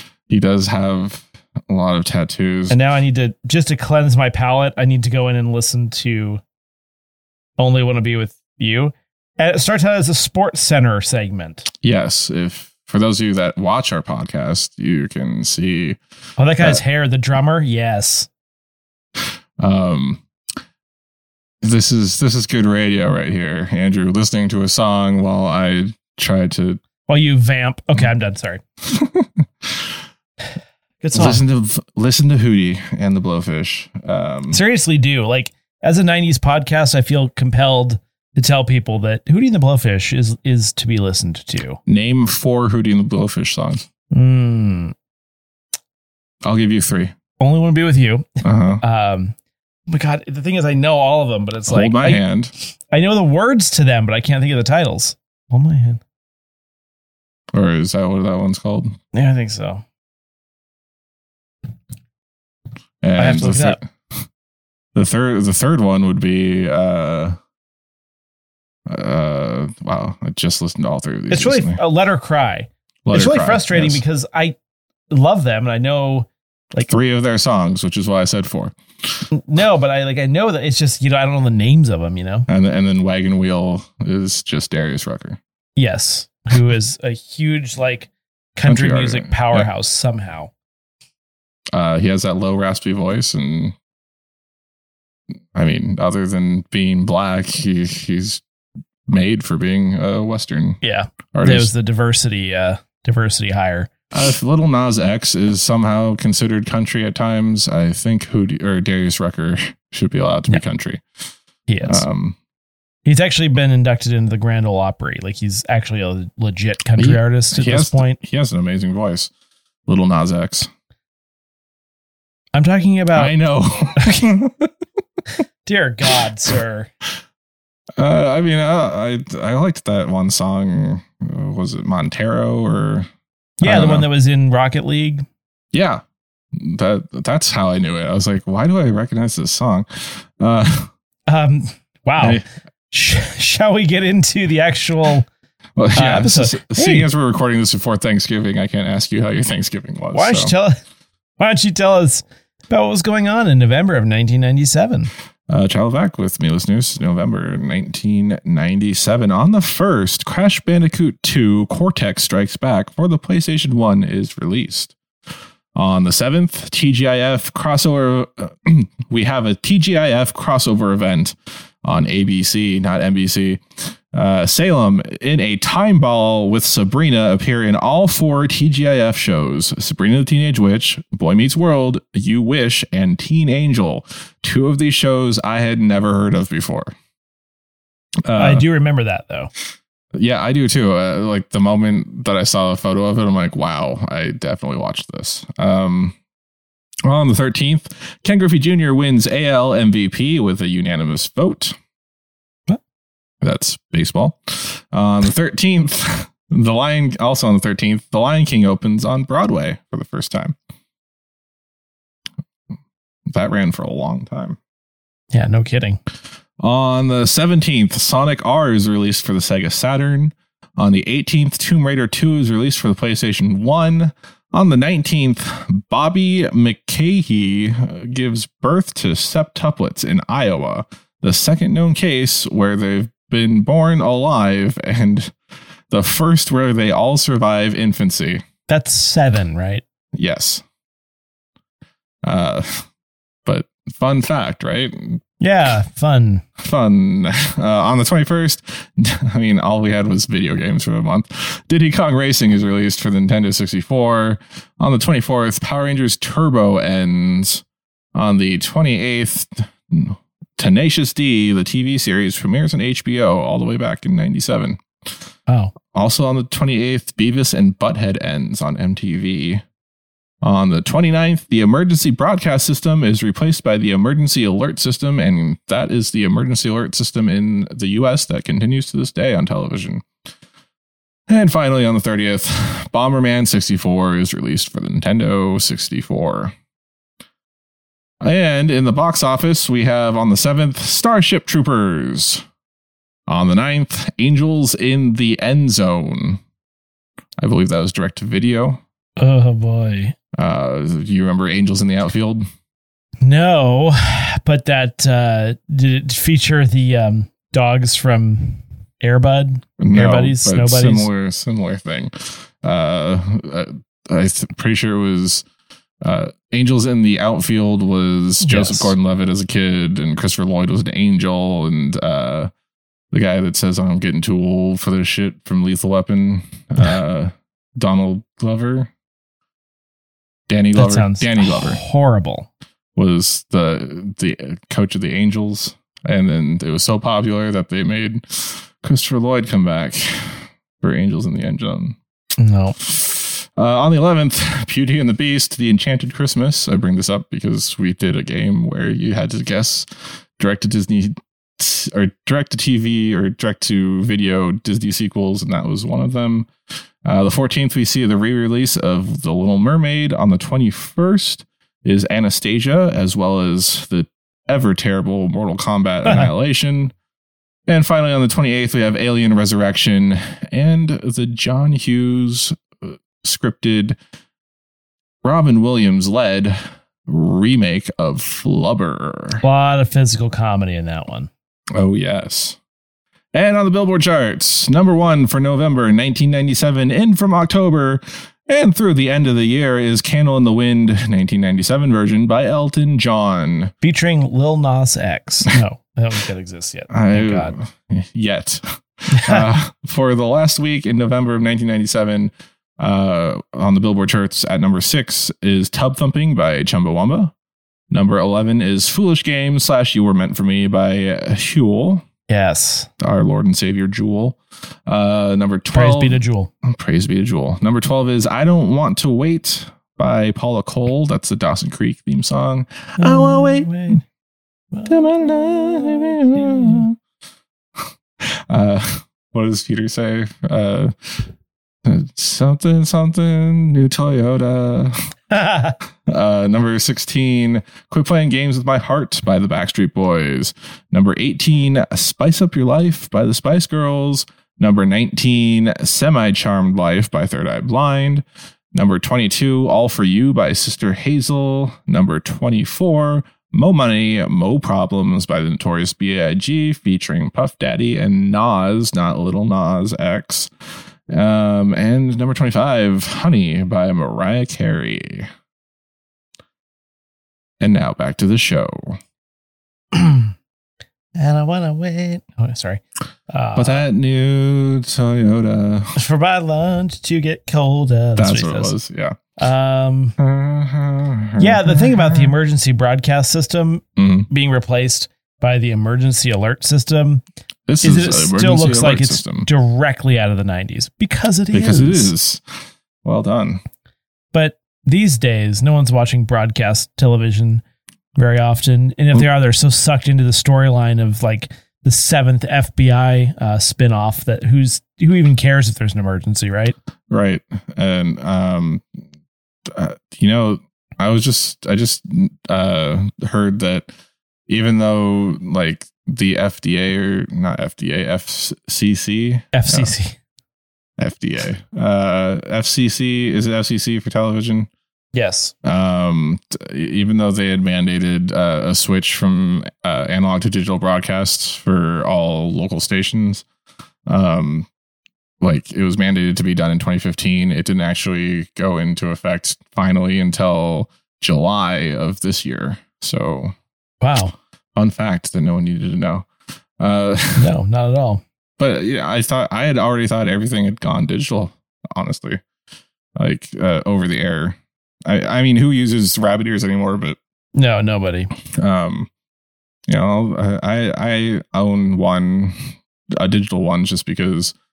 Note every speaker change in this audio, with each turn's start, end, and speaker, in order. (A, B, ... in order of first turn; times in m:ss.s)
0:00.3-0:02.8 A
0:02.7-0:06.4 B
0:07.6-0:11.7 B
0:11.8-0:16.0 A
0:16.4-0:18.3 B
0:19.6-0:20.2 A
0:21.6-0:26.8 A
0:27.1-0:28.6 B
0:28.9-0:29.9 A
0:31.0-0:31.4 B
0:31.1-0:34.6 A
0:34.5-0:41.8 B
0:41.9-0:43.9 A
0:44.1-0:45.0 B
0:46.4-0:47.1 A
0:47.4-0:49.4 B
0:48.4-0:48.8 A
0:49.9-0:56.0 B
0:51.7-0:52.5 A
0:57.5-0:59.0 A
0:59.1-0:59.8 B
1:03.0-1:03.9 A
1:03.2-1:03.8 B
1:04.9-1:07.4 A
1:08.9-1:11.8 A
1:11.3-1:14.6 B
1:13.1-1:14.0 A
1:15.1-1:16.9 B
1:16.9-1:18.8 A
1:19.3-1:22.5 B
1:22.5-1:25.4 A
1:25.8-1:30.5 B
1:28.7-1:29.7 A
1:31.7-1:33.8 A
1:35.5-1:38.4 A
1:39.1-1:40.8 A
1:40.8-1:43.9 B
1:41.3-1:41.7 A
1:44.1-1:51.0 A
1:51.7-1:52.1 B
1:51.8-1:52.4 A
1:53.0-1:58.2 B
1:57.0-1:59.3 A
1:59.9-2:00.7 A
2:02.5-2:03.3 B
2:03.1-2:04.7 A
2:04.0-2:04.2 B
2:05.6-2:06.9 B
2:08.0-2:13.1 A
2:13.6-2:14.1 A
2:13.6-2:15.3 B
2:15.7-2:20.9 A
2:21.3-2:25.3 B
2:22.2-2:22.4 A
2:25.8-2:30.5 A
2:26.0-2:27.1 B
2:30.1-2:30.8 B
2:31.4-2:35.1 B
2:35.5-2:45.0 A
2:45.8-3:06.9 A
3:08.3-3:08.6 A
3:08.4-3:09.5 B
3:10.1-3:16.2 A
3:17.1-3:21.8 A
3:23.4-3:30.6 A
3:33.3-3:34.6 A
3:35.3-3:36.0 B
3:36.6-3:55.3 A
3:55.9-3:58.4 A
3:58.7-3:59.8 B
4:00.1-4:00.6 A
4:02.2-4:02.9 A
4:03.4-4:05.2 A
4:05.4-4:06.4 B
4:06.6-4:17.6 A
4:18.2-4:24.8 A
4:25.5-4:25.7 B
4:25.9-4:29.6 A
4:30.4-4:40.0 A
4:41.3-4:46.6 A
4:48.2-4:52.4 A
4:53.3-4:56.4 A
4:57.4-4:58.8 A
4:59.2-5:00.2 B
5:00.3-5:02.4 A
5:03.2-5:11.1 B
5:09.8-5:15.4 A
5:16.0-5:22.5 A
5:18.4-5:18.9 B
5:23.1-5:28.9 A
5:30.5-5:31.8 A
5:30.7-5:32.5 B
5:33.0-5:42.0 A
5:42.4-5:42.8 B
5:42.8-5:56.5 A
5:57.0-6:06.9 A
6:07.7-6:14.0 A
6:15.2-6:19.4 A
6:19.4-6:21.3 B
6:21.8-6:22.6 A
6:23.3-6:33.7 A
6:33.8-6:37.5 B
6:36.9-6:47.3 A
6:39.1-6:39.5 B
6:47.9-6:52.1 A
6:52.3-6:52.9 B
6:53.0-7:04.0 A
6:55.7-6:56.5 B
7:03.0-7:04.0 B
7:04.7-7:06.8 B
7:04.9-7:07.0 A
7:08.2-7:11.3 A
7:11.8-7:15.1 A
7:15.3-7:15.8 B
7:16.0-7:40.5 A
7:41.1-7:45.3 A
7:47.6-7:49.0 A
7:49.9-7:50.3 B
7:51.2-7:53.8 B
7:53.6-7:56.0 A
7:56.0-7:58.7 B
7:58.2-7:59.2 A
7:59.4-8:00.2 B
8:00.2-8:02.3 A
8:01.4-8:07.2 B
8:04.0-8:04.3 A
8:07.7-8:09.5 A
8:07.8-8:12.1 B
8:11.5-8:12.5 A
8:13.0-8:13.6 A
8:14.3-8:17.6 B
8:18.2-8:26.8 B
8:27.1-8:28.9 A
8:29.7-8:33.9 A
8:34.5-8:39.9 A
8:39.5-8:40.2 B
8:41.0-8:44.7 A
8:45.1-8:45.5 B
8:45.6-8:53.4 A
8:54.1-8:54.7 A
8:55.4-9:03.5 A
9:04.0-9:04.4 B
9:04.8-9:06.3 A
9:06.8-9:07.5 A
9:07.4-9:08.2 B
9:08.6-9:12.4 A
9:13.2-9:17.2 A
9:17.6-9:18.3 B
9:18.5-9:19.1 A
9:19.9-9:24.5 A